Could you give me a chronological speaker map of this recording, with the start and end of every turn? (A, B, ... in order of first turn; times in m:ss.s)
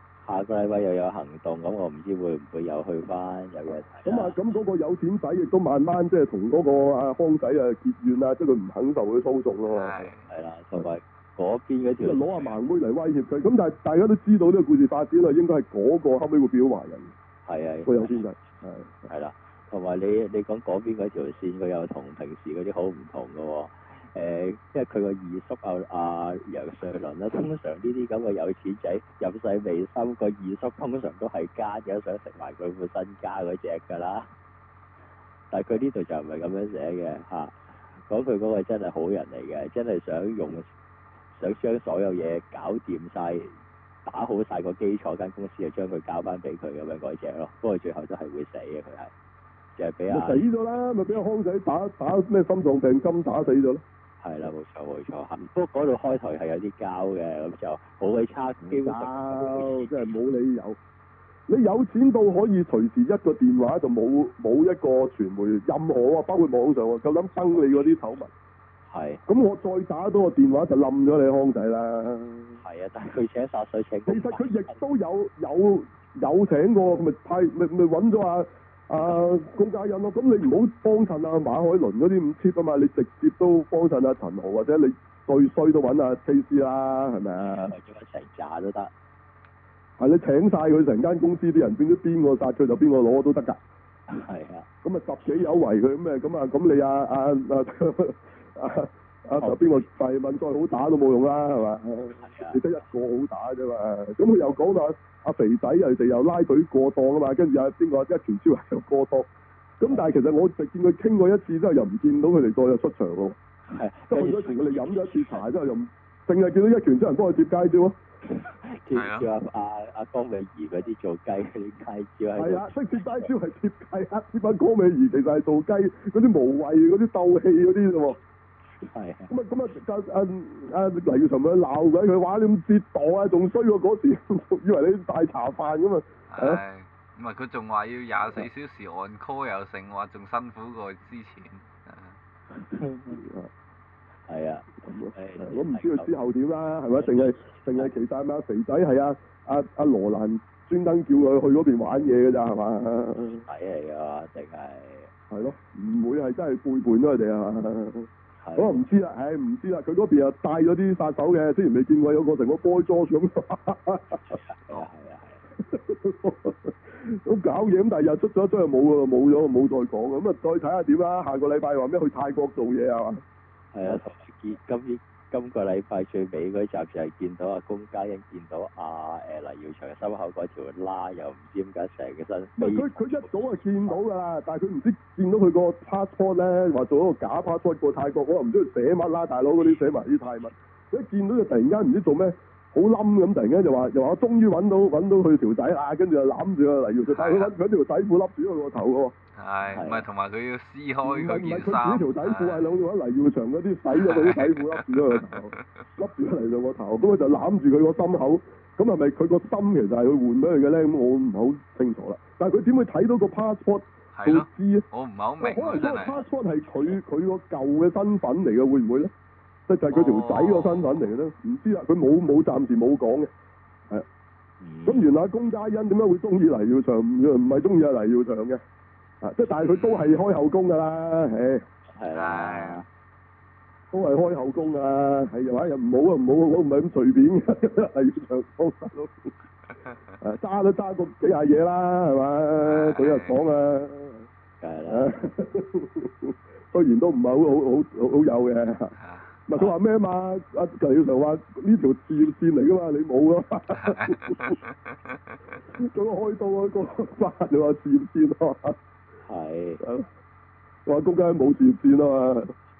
0:00.2-0:04.4 A
0:04.0-0:10.1 B
0:09.7-0:10.3 C
0:10.3-0:12.4 A
0:12.0-0:17.1 B
0:17.4-0:18.2 A
0:17.8-0:18.9 B
0:19.1-0:34.3 A
0:35.5-0:40.6 A
0:41.3-0:43.5 A
0:44.0-0:49.1 A
0:49.8-0:50.4 A
0:50.1-0:53.8 B
0:54.2-1:00.1 A
0:58.6-1:00.8 B
1:01.5-1:08.3 B
1:08.9-1:09.2 A
1:09.3-1:12.6 B
1:12.6-1:14.8 A
1:14.1-1:27.7 B
1:27.4-1:28.9 A
1:30.0-1:33.6 B
1:34.1-1:34.6 A
1:34.8-1:53.4 B
1:39.4-1:39.8 A
1:42.2-1:42.6 A
1:53.7-1:55.4 A
1:54.1-1:58.0 B
1:58.3-2:03.3 A
1:58.9-1:59.3 C
2:02.4-2:08.2 B
2:08.8-2:09.3 A
2:09.3-2:16.6 B
2:16.3-2:22.2 C
2:22.5-2:23.2 A
2:23.1-2:23.5 B
2:24.3-2:26.1 A
2:24.8-2:33.4 B
2:27.0-2:27.9 A
2:33.3-2:35.1 A
2:35.3-2:44.2 B
2:38.4-2:38.7 A
2:44.2-2:45.4 A
2:45.6-2:53.2 B
2:53.7-3:04.0 A
3:02.6-3:19.2 B
3:09.6-3:09.9 A
3:17.1-3:17.5 C
3:19.4-3:22.7 C
3:19.7-3:20.0 A
3:21.0-3:34.8 B
3:24.0-3:25.8 C
3:34.1-3:36.2 C
3:35.4-3:39.1 B
3:39.7-3:43.3 B
3:39.9-3:41.0 C
3:44.6-3:45.1 A
3:44.8-3:48.6 B
3:49.2-3:51.6 B
3:49.6-3:50.2 C
3:51.9-3:52.8 A
3:52.1-3:52.8 C
3:53.9-3:59.3 B
4:00.2-4:04.3 B
4:02.6-4:03.4 C
4:04.6-4:05.1 A
4:04.9-4:08.9 B
4:09.0-4:09.3 C
4:09.5-4:14.6 B
4:13.8-4:15.4 C
4:15.7-4:18.8 B
4:19.2-4:19.8 A
4:19.8-4:20.1 B
4:20.8-4:22.5 B